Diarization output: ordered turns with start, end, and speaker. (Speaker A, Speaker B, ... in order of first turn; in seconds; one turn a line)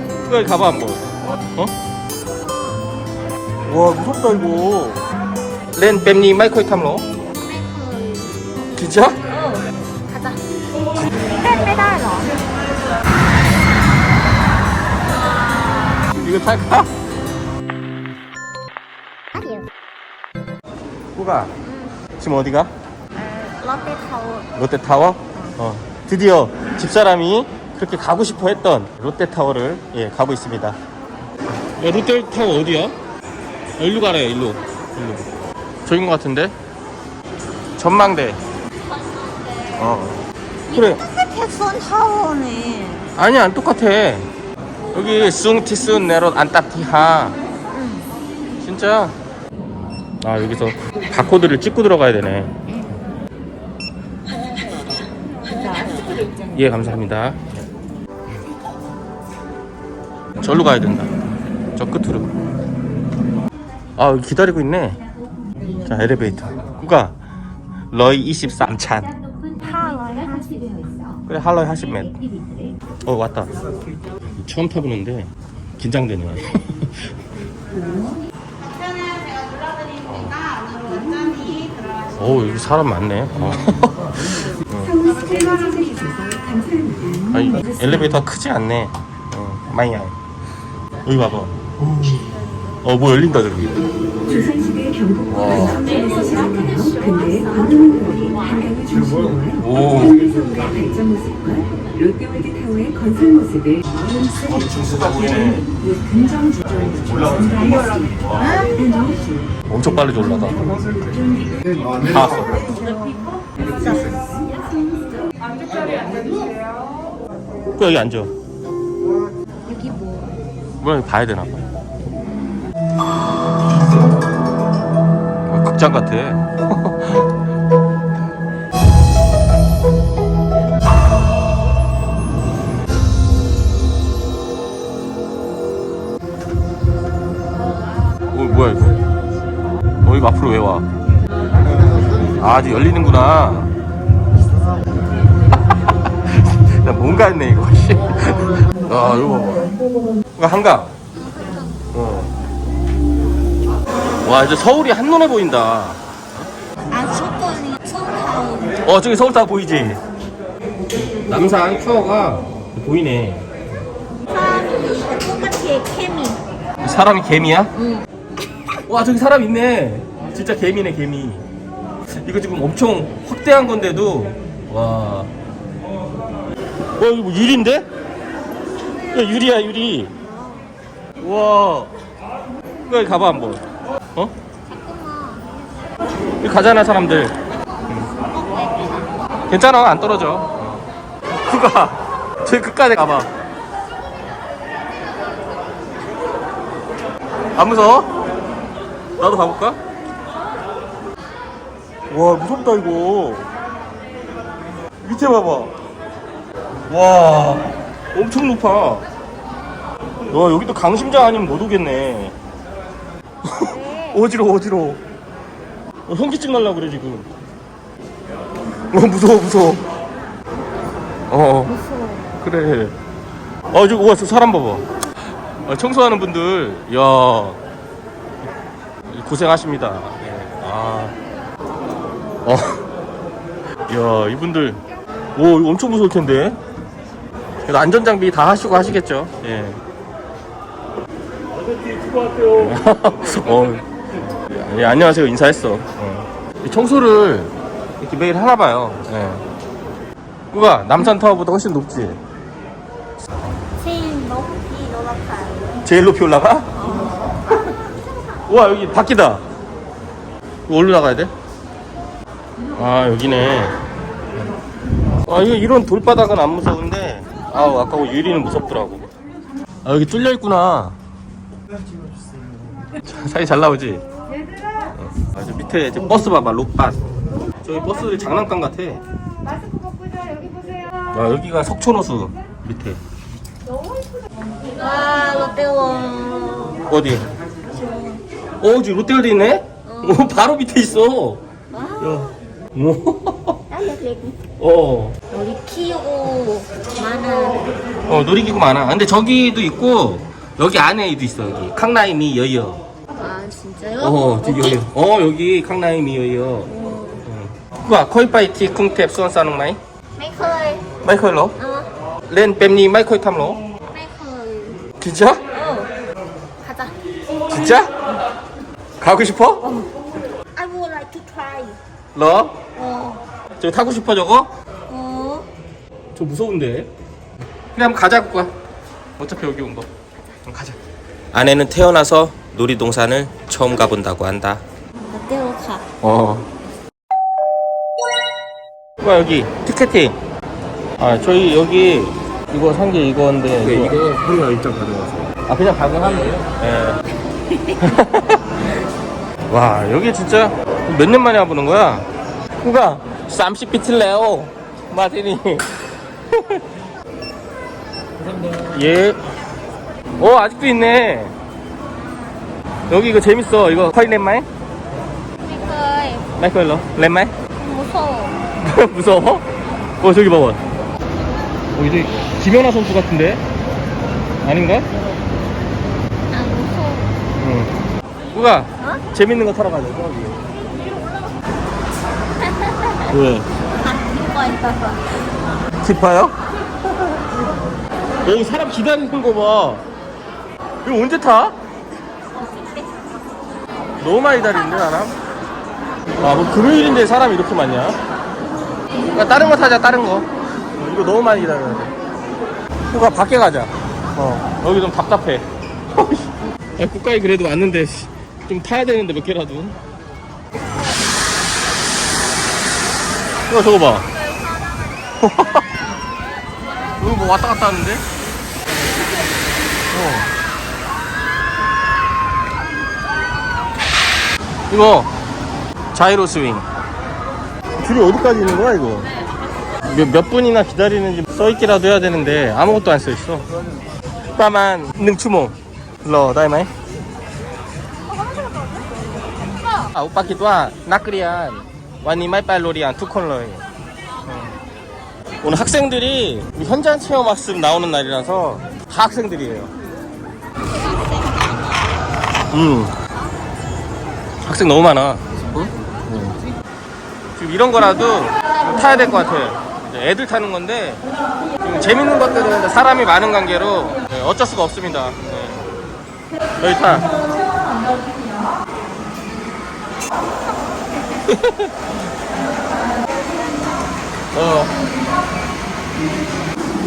Speaker A: 0.3-1.1
Speaker B: 2.4-2.8
Speaker A: 3.7-5.0
Speaker A: 5.8-7.1
Speaker B: 7.4-8.5
Speaker A: 8.8-9.2
Speaker B: 9.3-10.4
Speaker B: 11.2-12.4
Speaker A: 16.2-16.9
Speaker B: 19.3-19.7
Speaker A: 21.1-21.5
Speaker B: 21.6-22.0
Speaker A: 22.2-22.7
Speaker B: 23.1-24.5
Speaker A: 24.6-30.8
Speaker A: 31.8-33.0
Speaker A: 33.8-35.3
Speaker A: 35.9-36.5
Speaker A: 37.8-38.4
Speaker B: 38.9-39.9
Speaker A: 39.8-41.0
Speaker B: 40.7-43.1
Speaker A: 43.2-44.3
Speaker A: 44.9-47.4
Speaker B: 47.7-48.1
Speaker A: 48.6-49.1
Speaker A: 50.2-52.5
Speaker B: 55.5-56.5
Speaker A: 56.5-57.5
Speaker A: 60.4-61.2
Speaker A: 61.8-62.3
Speaker A: 64.0-65.0
Speaker A: 65.8-67.2
Speaker A: 67.9-69.1
Speaker B: 69.6-71.2
Speaker A: 71.3-72.2
Speaker A: 73.0-73.5
Speaker A: 74.4-77.1
Speaker B: 78.8-79.8
Speaker A: 80.0-80.4
Speaker B: 80.4-82.0
Speaker A: 82.2-85.1
Speaker C: 85.1-87.2
Speaker A: 87.3-90.1
Speaker A: 91.1-92.3
Speaker A: 92.8-93.8
Speaker C: 94.5-95.2
Speaker A: 95.3-95.9
Speaker B: 95.7-98.7
Speaker C: 98.6-99.5
Speaker A: 99.5-100.4
Speaker C: 100.3-103.8
Speaker A: 104.3-105.8
Speaker C: 106.0-106.8
Speaker A: 106.8-108.7
Speaker C: 108.8-109.4
Speaker A: 109.7-111.1
Speaker A: 112.0-112.7
Speaker B: 112.5-116.3
Speaker A: 117.8-118.3
Speaker B: 119.7-120.4
Speaker A: 120.8-121.6
Speaker A: 125.5-127.3
Speaker A: 138.3-139.0
Speaker A: 140.0-140.8
Speaker A: 142.4-143.7
Speaker A: 146.3-149.7
Speaker A: 150.4-150.9
Speaker B: 151.2-151.9
Speaker A: 151.9-152.3
Speaker A: 154.2-156.0
Speaker B: 156.9-158.8
Speaker A: 158.8-160.0
Speaker A: 161.3-163.5
Speaker B: 164.3-166.4
Speaker A: 166.8-167.7
Speaker B: 167.8-168.1
Speaker A: 168.9-171.4
Speaker A: 172.2-175.3
Speaker A: 177.0-177.9
Speaker A: 179.1-180.1
Speaker B: 180.2-180.7
Speaker A: 181.2-181.9
Speaker A: 182.8-183.6
Speaker B: 184.7-185.5
Speaker A: 186.4-187.3
Speaker B: 188.0-189.1
Speaker A: 189.5-190.8
Speaker A: 191.5-193.3
Speaker A: 197.6-198.2
Speaker A: 199.2-199.8
Speaker A: 202.1-203.5
Speaker A: 205.0-205.7
Speaker A: 206.9-209.0
Speaker A: 210.3-212.3
Speaker A: 213.4-215.0
Speaker B: 213.6-214.2
Speaker A: 216.1-217.3
Speaker A: 218.9-219.9
Speaker A: 221.3-221.8
Speaker B: 221.8-222.3
Speaker A: 222.3-222.9
Speaker A: 223.7-224.8
Speaker A: 225.7-227.6
Speaker A: 229.1-231.1
Speaker A: 232.4-232.8
Speaker A: 233.9-234.8
Speaker A: 235.3-236.6
Speaker A: 237.6-239.8
Speaker A: 242.1-249.4
Speaker A: 250.5-252.2
Speaker B: 253.8-255.7
Speaker A: 255.8-256.8
Speaker B: 256.8-258.4
Speaker A: 258.5-259.4
Speaker A: 260.7-261.3
Speaker A: 262.8-263.8
Speaker A: 265.3-269.1
Speaker A: 269.9-270.9
Speaker A: 273.0-274.0
Speaker A: 274.9-277.0
Speaker A: 277.6-279.0
Speaker A: 281.1-283.0
Speaker B: 284.8-286.8
Speaker A: 286.9-287.2
Speaker B: 287.7-288.2
Speaker A: 288.6-291.4
Speaker B: 289.9-290.4
Speaker B: 291.7-292.4
Speaker A: 292.0-293.6
Speaker B: 293.7-294.4
Speaker A: 294.6-295.2
Speaker B: 295.3-297.7
Speaker A: 298.1-302.8
Speaker B: 303.2-304.8
Speaker A: 304.0-306.7
Speaker B: 306.7-307.2
Speaker A: 307.3-309.8
Speaker B: 310.2-310.9
Speaker A: 311.0-311.6
Speaker B: 311.6-311.9
Speaker A: 312.3-313.6
Speaker B: 313.9-314.8
Speaker A: 315.0-315.4
Speaker B: 315.5-315.9
Speaker B: 316.6-316.9
Speaker A: 317.5-317.9
Speaker A: 319.0-319.8
Speaker B: 320.6-321.8
Speaker A: 322.1-322.6
Speaker B: 322.8-323.2
Speaker A: 323.6-324.5
Speaker B: 324.9-325.5
Speaker A: 326.1-326.9
Speaker A: 327.8-328.5
Speaker A: 329.2-329.9
Speaker A: 330.5-330.8
Speaker A: 331.3-334.6
Speaker B: 335.0-335.9
Speaker A: 336.0-336.5
Speaker A: 339.0-340.2
Speaker A: 341.0-347.0
Speaker A: 347.6-348.4
Speaker A: 349.5-352.1
Speaker A: 352.6-356.6
Speaker A: 358.5-359.2
Speaker A: 360.2-361.3
Speaker B: 362.0-362.4
Speaker A: 362.9-364.5
Speaker B: 365.4-366.3
Speaker A: 366.4-367.4
Speaker B: 367.6-368.4
Speaker A: 368.6-369.4
Speaker A: 370.0-370.6
Speaker A: 371.8-373.4
Speaker A: 374.4-374.9
Speaker B: 376.3-377.1
Speaker A: 377.4-377.8
Speaker A: 378.3-380.4
Speaker B: 382.4-383.1
Speaker A: 383.1-383.5
Speaker B: 383.8-385.3
Speaker A: 385.8-386.4
Speaker A: 386.9-387.2
Speaker A: 388.2-389.8
Speaker A: 390.8-391.6
Speaker B: 392.4-393.2
Speaker A: 394.0-395.1
Speaker A: 396.2-398.0
Speaker A: 399.1-401.9
Speaker A: 402.9-409.8
Speaker A: 413.5-414.1
Speaker B: 414.1-415.2
Speaker A: 415.2-415.9
Speaker A: 417.0-418.1
Speaker A: 419.9-420.3
Speaker A: 424.7-425.1
Speaker A: 425.9-426.7
Speaker A: 427.8-429.1
Speaker A: 429.9-433.4
Speaker A: 434.4-436.7
Speaker B: 438.3-438.9
Speaker A: 439.8-443.6
Speaker A: 444.3-444.5
Speaker A: 445.4-449.7
Speaker B: 450.7-451.7
Speaker A: 452.5-452.9
Speaker A: 454.4-456.4
Speaker A: 457.4-461.1
Speaker A: 461.6-465.7
Speaker A: 466.6-467.1
Speaker A: 471.3-471.7
Speaker A: 474.3-474.7